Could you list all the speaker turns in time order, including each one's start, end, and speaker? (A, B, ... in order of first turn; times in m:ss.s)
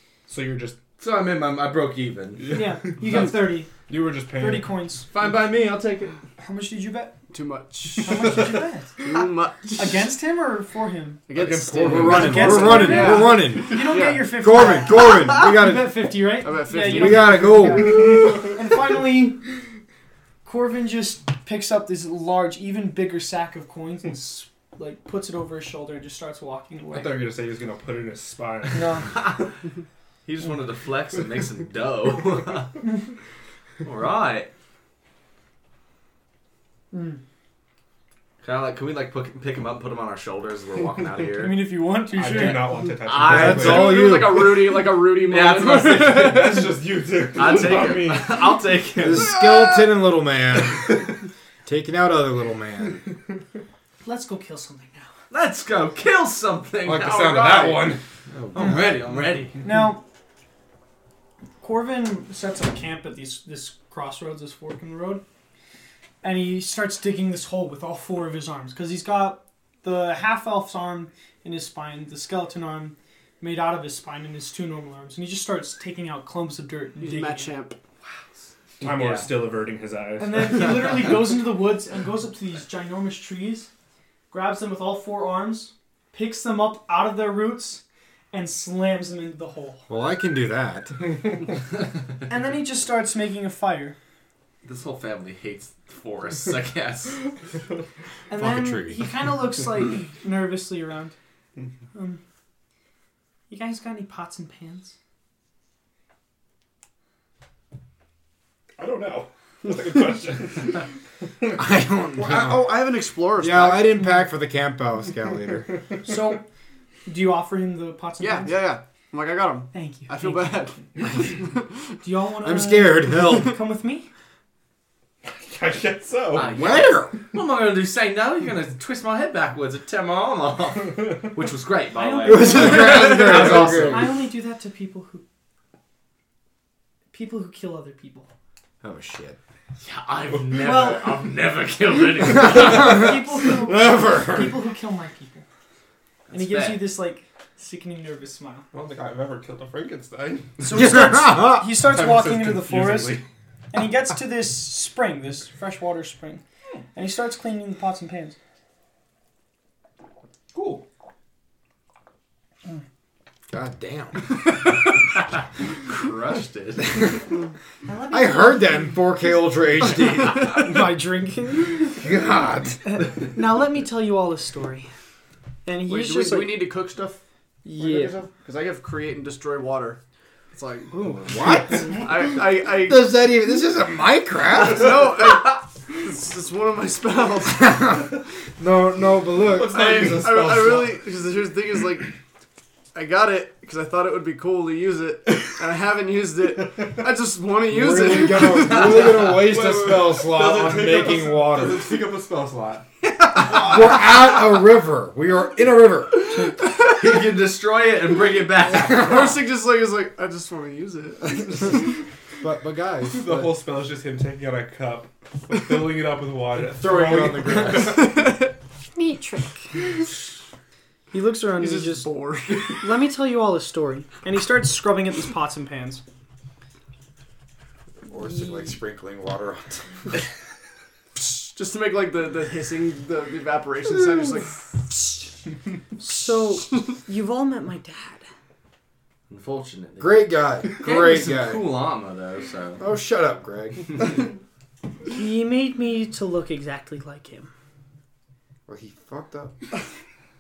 0:00.3-0:00.8 A
0:01.0-0:02.6 B
0:02.4-0:04.7 A
0:02.5-0:03.7 C
0:04.3-0:05.1 C
0:05.1-0:06.2 B
0:06.4-0:07.2 C
0:07.3-0:08.4 D
0:08.0-0:09.0 C
0:09.0-0:10.1 D
0:09.8-0:11.2 C
0:11.3-0:14.7 D
0:11.4-0:12.8 A
0:11.8-0:16.1 E
0:12.0-0:19.4 C
0:16.4-0:17.6 D
0:16.7-0:18.4 E
0:20.4-0:27.3 C
0:26.9-0:29.3 A
0:28.7-0:29.1 C
0:30.2-0:32.8 B
0:33.8-0:34.5 B
0:36.9-0:37.2 C
0:38.4-0:41.6 B
0:41.4-0:42.8 C
0:42.1-0:44.0 A
0:43.0-0:46.6 B
0:43.2-0:44.8 E
0:43.5-0:46.7 D
0:46.1-0:49.3 A
0:47.3-0:49.3 B
0:49.0-0:51.1 E
0:51.7-0:53.0 E
0:54.0-0:55.1 C
0:55.3-0:58.0 B
0:56.8-0:58.0 A
0:58.3-0:58.9 E
0:58.5-0:59.6 B
0:59.6-1:00.0 C
1:01.6-1:05.2 C
1:06.2-1:17.6 C
1:17.0-1:17.8 D
1:18.8-1:19.3 B
1:18.8-1:21.0 A
1:20.2-1:23.7 C
1:24.3-1:29.9 C
1:29.9-1:31.0 E
1:32.3-1:34.0 C
1:34.6-1:37.2 B
1:38.3-1:41.2 C
1:38.4-1:39.1 E
1:41.9-1:42.2 C
1:43.5-1:45.0 C
1:48.8-1:50.9 A
1:51.5-1:52.8 E
1:52.2-1:54.0 D
1:53.4-1:55.8 E
1:56.0-1:56.4 C
1:57.1-1:58.6 C
1:58.2-2:01.0 D
1:59.7-2:00.8 C
2:02.0-2:04.1 C
2:02.4-2:03.6 E
2:05.2-2:06.6 A
2:06.3-2:14.1 B
2:06.4-2:07.2 E
2:12.0-2:15.2 C
2:12.2-2:14.2 E
2:17.1-2:18.3 C
2:18.8-2:19.4 E
2:19.8-2:23.1 B
2:20.6-2:21.2 C
2:22.4-2:24.6 E
2:22.5-2:25.5 C
2:26.3-2:26.9 B
2:26.3-2:28.7 C
2:28.7-2:30.6 A
2:30.6-2:33.2 C
2:30.7-2:31.7 E
2:31.9-2:33.2 A
2:33.7-2:36.4 C
2:36.9-2:38.4 C
2:40.6-2:40.8 B
2:40.6-2:40.8 A
2:43.5-2:44.3 E
2:45.8-2:47.2 B
2:47.9-2:48.9 C
2:48.1-2:50.7 E
2:50.5-2:51.9 C
2:51.9-2:52.9 E
2:52.9-2:54.9 C
2:55.7-2:56.6 C
2:55.9-2:57.2 D
2:57.6-2:58.2 C
2:57.8-3:00.0 D
3:00.5-3:01.2 D
3:00.9-3:01.9 C
3:01.2-3:02.1 E
3:01.9-3:03.1 D
3:02.7-3:05.1 E
3:04.5-3:07.8 D
3:07.5-3:10.0 E
3:09.4-3:11.0 A
3:09.7-3:12.1 D
3:12.9-3:19.2 D
3:17.7-3:21.9 E
3:19.2-3:22.8 A
3:23.3-3:26.5 E
3:26.9-3:29.3 B
3:28.9-3:31.8 D
3:31.3-3:31.9 E
3:32.4-3:33.5 E
3:33.1-3:38.1 A
3:36.7-3:38.1 E
3:39.0-3:39.8 C
3:41.1-3:42.1 C
3:41.6-3:42.8 D
3:42.6-3:46.0 C
3:48.1-3:49.9 E
3:51.2-3:54.6 D
3:56.0-3:58.2 C
3:59.3-4:02.8 B
4:00.0-4:01.7 E
4:02.8-4:04.3 E
4:05.1-4:07.5 C
4:08.7-4:09.6 E